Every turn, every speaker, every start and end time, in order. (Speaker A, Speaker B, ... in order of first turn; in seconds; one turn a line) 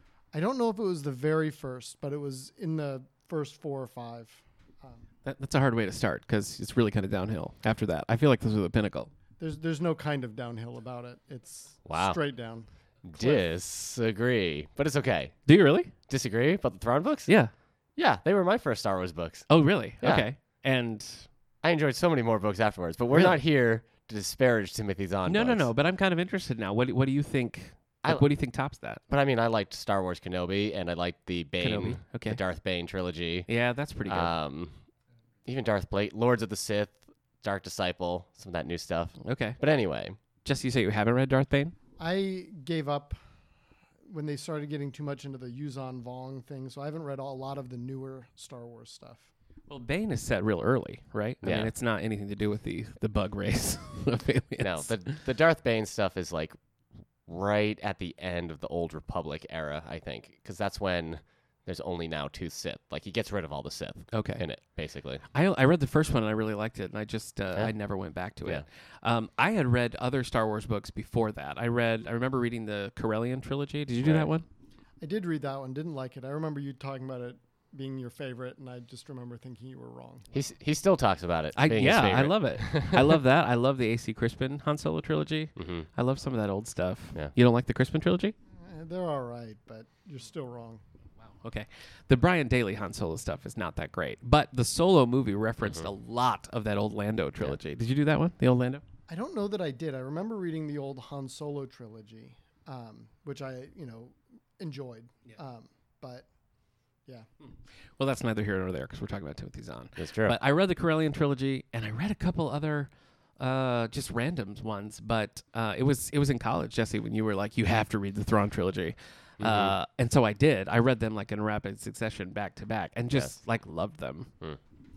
Speaker A: 0.3-5.1
Speaker B: 5.2-9.1
Speaker A: 9.4-13.4
Speaker C: 11.9-12.2
Speaker C: 13.1-15.4
Speaker B: 15.5-15.9
Speaker C: 16.1-17.3
Speaker B: 17.3-17.5
Speaker C: 18.0-19.5
Speaker B: 19.5-21.3
Speaker C: 20.0-20.3
Speaker C: 21.6-25.7
Speaker B: 23.1-23.4
Speaker B: 25.3-29.0
Speaker C: 29.1-33.5
Speaker B: 31.6-32.4
Speaker B: 33.5-34.3
Speaker C: 34.1-34.7
Speaker C: 35.5-40.2
Speaker B: 39.2-39.6
Speaker B: 40.4-41.8
Speaker A: 42.0-43.2
Speaker A: 44.1-49.3
Speaker B: 49.7-55.0
Speaker C: 51.4-51.7
Speaker C: 54.6-56.6
Speaker C: 57.3-65.2
Speaker B: 64.1-64.5
Speaker B: 65.3-74.5
Speaker C: 74.0-74.3
Speaker A: 75.0-80.3
Speaker C: 80.3-83.2
Speaker B: 81.5-88.3
Speaker C: 85.6-85.9
Speaker A: 88.6-90.8
Speaker B: 91.3-98.8
Speaker A: 99.1-106.3
Speaker B: 108.0-124.3
Speaker C: 110.0-110.4
Speaker C: 119.4-119.8
Speaker C: 123.1-123.4